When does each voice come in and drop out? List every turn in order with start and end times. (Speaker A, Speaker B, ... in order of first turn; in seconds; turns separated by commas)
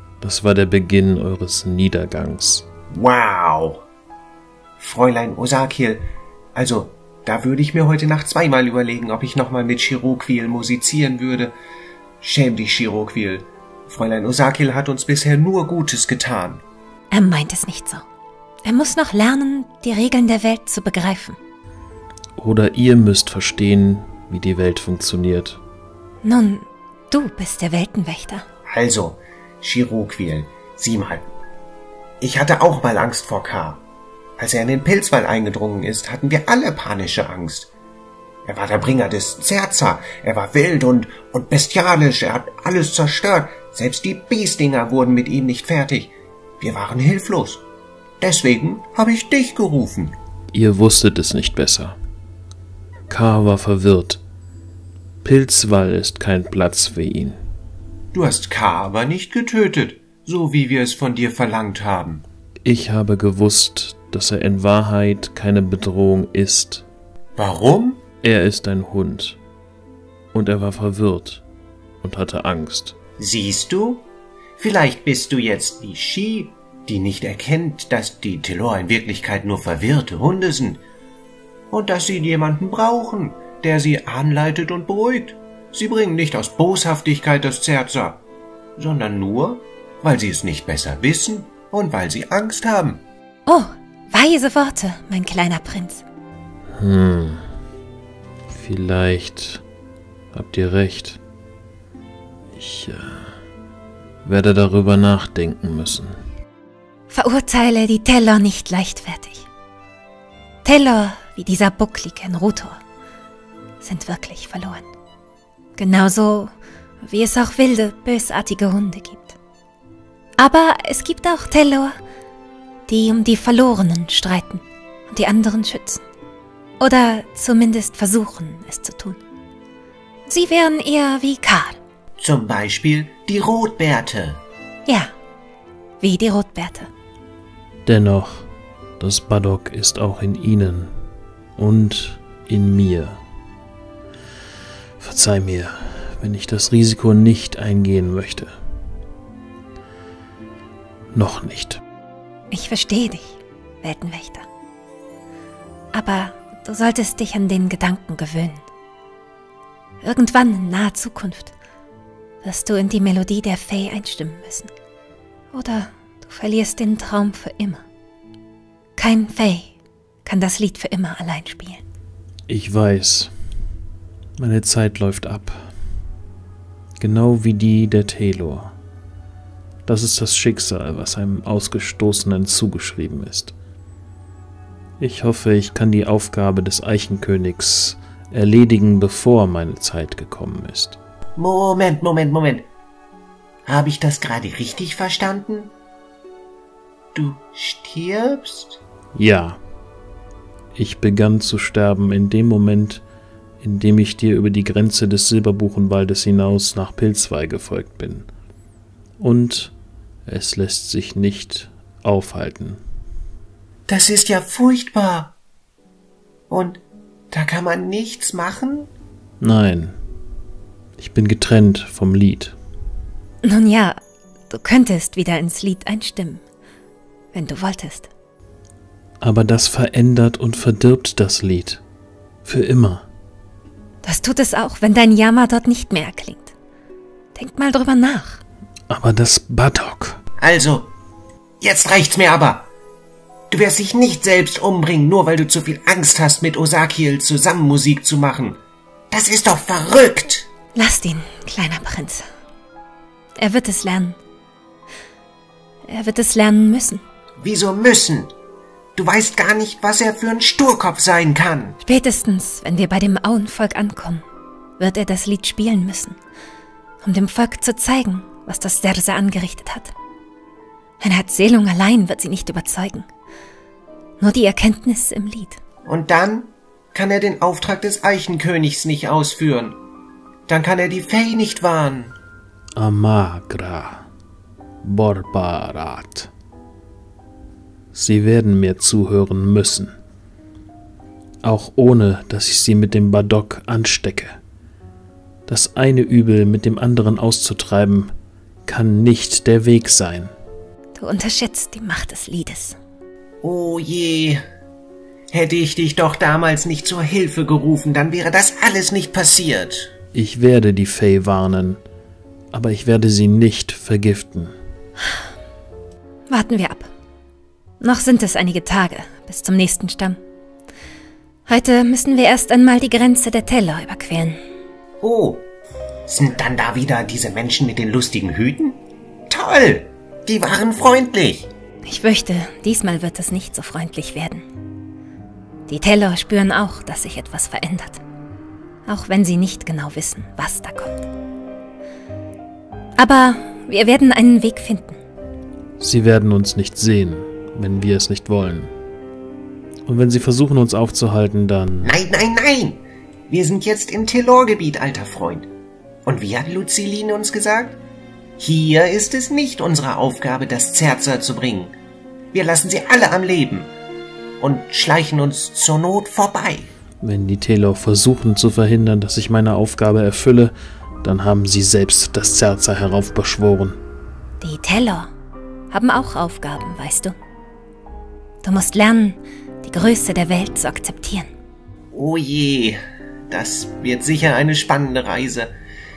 Speaker A: 0.2-2.6, Speaker B: 2.9-3.8, Speaker B: 4.8-11.5, Speaker B: 12.2-16.6, Speaker C: 17.1-18.0, Speaker C: 18.6-21.4, Speaker A: 22.4-25.6, Speaker C: 26.2-28.4, Speaker B: 28.7-31.2, Speaker B: 32.2-33.8, Speaker B: 34.4-37.7, Speaker B: 38.4-47.6, Speaker B: 48.2-50.1, Speaker A: 50.5-52.0, Speaker A: 53.1-54.2, Speaker A: 55.2-57.4, Speaker B: 58.1-62.2, Speaker A: 62.6-66.8, Speaker B: 67.4-68.0, Speaker A: 68.2-69.4, Speaker A: 70.3-71.4, Speaker A: 72.0-73.0, Speaker B: 73.2-74.0, Speaker B: 74.6-80.8, Speaker B: 81.7-88.2, Speaker B: 88.8-93.0, Speaker C: 93.5-96.0, Speaker A: 96.7-97.4, Speaker A: 98.5-99.6, Speaker A: 100.3-101.2, Speaker A: 102.5-103.3, Speaker A: 104.2-106.2, Speaker C: 107.1-109.5, Speaker C: 110.6-112.8, Speaker C: 113.8-114.9, Speaker C: 115.8-119.4, Speaker C: 120.4-122.0, Speaker C: 122.9-126.0, Speaker C: 126.8-129.2, Speaker C: 130.3-131.8, Speaker B: 132.2-134.4, Speaker C: 134.8-135.1, Speaker C: 136.0-136.9, Speaker A: 137.8-138.5, Speaker A: 139.0-140.9, Speaker A: 141.6-143.2, Speaker A: 145.0-148.5, Speaker A: 151.1-151.8, Speaker C: 152.5-154.4, Speaker C: 155.9-158.6, Speaker C: 160.0-161.5, Speaker C: 162.4-164.7, Speaker C: 165.5-167.8, Speaker C: 169.0-171.8, Speaker A: 172.5-173.3, Speaker A: 174.4-175.7, Speaker A: 177.0-178.7, Speaker A: 179.8-183.5, Speaker A: 185.0-191.0, Speaker B: 191.4-192.7, Speaker B: 193.7-195.7, Speaker B: 197.1-198.8, Speaker A: 199.1-199.6, Speaker A: 200.7-203.0, Speaker A: 203.6-208.3, Speaker A: 209.2-209.7, Speaker A: 210.2-212.8, Speaker B: 213.9-215.3, Speaker B: 216.5-218.9, Speaker A: 219.4-220.0, Speaker A: 221.0-222.6, Speaker C: 223.4-224.0, Speaker C: 224.5-226.4, Speaker C: 227.3-228.1, Speaker A: 229.2-231.8, Speaker A: 232.4-233.1, Speaker C: 234.0-236.5, Speaker C: 237.3-238.4, Speaker A: 238.9-240.2, Speaker B: 240.4-240.9, Speaker B: 241.6-242.7, Speaker B: 243.5-248.6, Speaker B: 249.1-250.5, Speaker C: 250.7-252.2, Speaker C: 253.4-254.2, Speaker C: 255.8-257.0, Speaker B: 257.4-258.3, Speaker B: 258.9-261.8, Speaker C: 261.8-264.2, Speaker C: 264.8-266.2, Speaker C: 267.0-269.9, Speaker C: 271.0-273.1, Speaker C: 274.2-275.6, Speaker B: 275.8-279.8, Speaker B: 280.5-282.1, Speaker A: 282.8-284.1, Speaker A: 284.8-286.3, Speaker A: 287.9-289.9, Speaker A: 291.4-294.4, Speaker A: 295.5-298.1, Speaker A: 298.6-300.3, Speaker C: 300.9-302.8, Speaker B: 303.4-304.4, Speaker B: 305.3-309.9, Speaker A: 310.1-311.8, Speaker A: 312.5-314.5, Speaker C: 316.3-316.9, Speaker C: 317.8-320.2, Speaker C: 321.5-324.4, Speaker B: 325.0-325.4, Speaker B: 326.1-328.8, Speaker B: 329.3-331.5, Speaker C: 331.8-334.4, Speaker C: 335.7-338.0, Speaker C: 338.9-341.1, Speaker C: 343.0-345.0, Speaker A: 345.8-348.7, Speaker A: 349.9-352.0, Speaker B: 351.8-355.5, Speaker B: 356.0-357.8, Speaker B: 358.4-361.8, Speaker B: 362.3-363.7, Speaker B: 364.4-366.7, Speaker A: 367.0-373.8, Speaker C: 374.4-375.1, Speaker C: 375.7-377.2, Speaker C: 378.4-381.3, Speaker B: 381.9-385.5